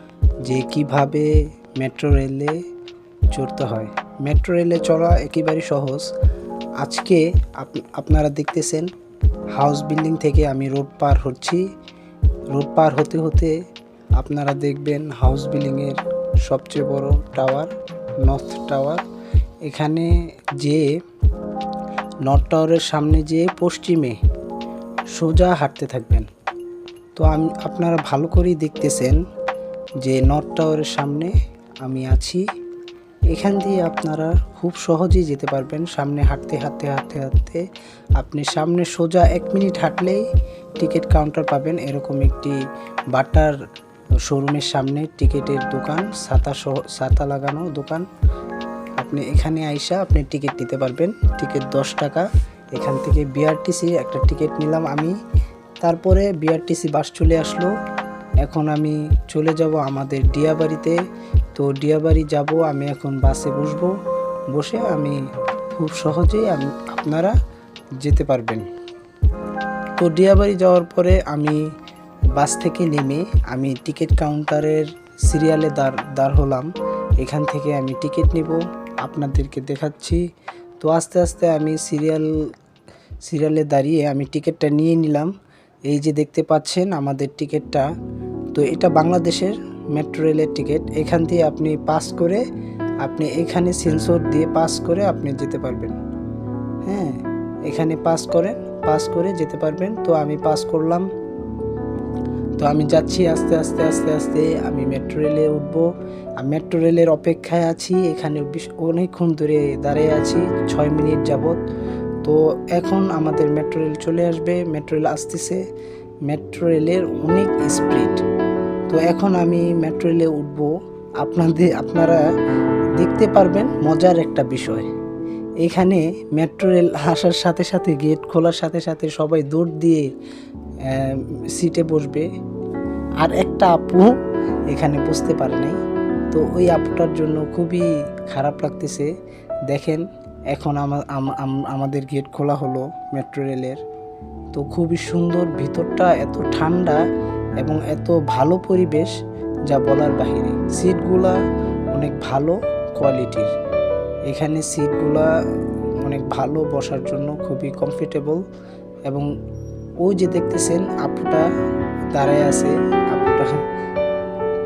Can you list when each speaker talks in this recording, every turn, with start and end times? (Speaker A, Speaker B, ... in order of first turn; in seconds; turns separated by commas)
Speaker A: 0.5-1.3, Speaker A: 1.8-2.5, Speaker A: 3.3-6.0, Speaker A: 6.8-8.9, Speaker A: 9.6-11.6, Speaker A: 12.5-13.5, Speaker A: 14.2-17.7, Speaker A: 18.2-19.0, Speaker A: 19.7-20.1, Speaker A: 20.6-20.8, Speaker A: 22.2-24.2, Speaker A: 25.1-26.2, Speaker A: 27.2-29.2, Speaker A: 30.0-31.3, Speaker A: 31.8-32.4, Speaker A: 33.3-37.6, Speaker A: 38.2-40.2, Speaker A: 40.8-42.6, Speaker A: 43.1-43.5, Speaker A: 44.3-48.0, Speaker A: 49.0-55.1, Speaker A: 55.8-57.7, Speaker A: 58.4-61.0, Speaker A: 61.5-63.9, Speaker A: 64.5-65.2, Speaker A: 65.7-67.3, Speaker A: 68.0-68.6, Speaker A: 70.0-71.6, Speaker A: 72.3-76.7, Speaker A: 77.2-80.2, Speaker A: 80.8-82.3, Speaker A: 83.3-85.3, Speaker A: 85.9-87.9, Speaker A: 88.5-92.4, Speaker A: 93.0-95.9, Speaker A: 96.8-97.2, Speaker A: 97.7-101.0, Speaker A: 102.6-105.8, Speaker A: 106.4-111.6, Speaker A: 112.2-115.6, Speaker A: 116.3-118.2, Speaker A: 118.9-120.7, Speaker A: 121.2-122.2, Speaker A: 123.0-124.9, Speaker A: 125.6-130.0, Speaker A: 130.9-132.3, Speaker A: 133.2-134.1, Speaker A: 134.7-135.8, Speaker A: 136.3-139.1, Speaker A: 139.7-143.8, Speaker A: 144.5-147.0, Speaker A: 147.6-149.1, Speaker A: 149.7-151.4, Speaker A: 151.9-153.5, Speaker A: 154.3-155.2, Speaker A: 156.0-158.4, Speaker A: 160.0-161.5, Speaker A: 162.1-163.6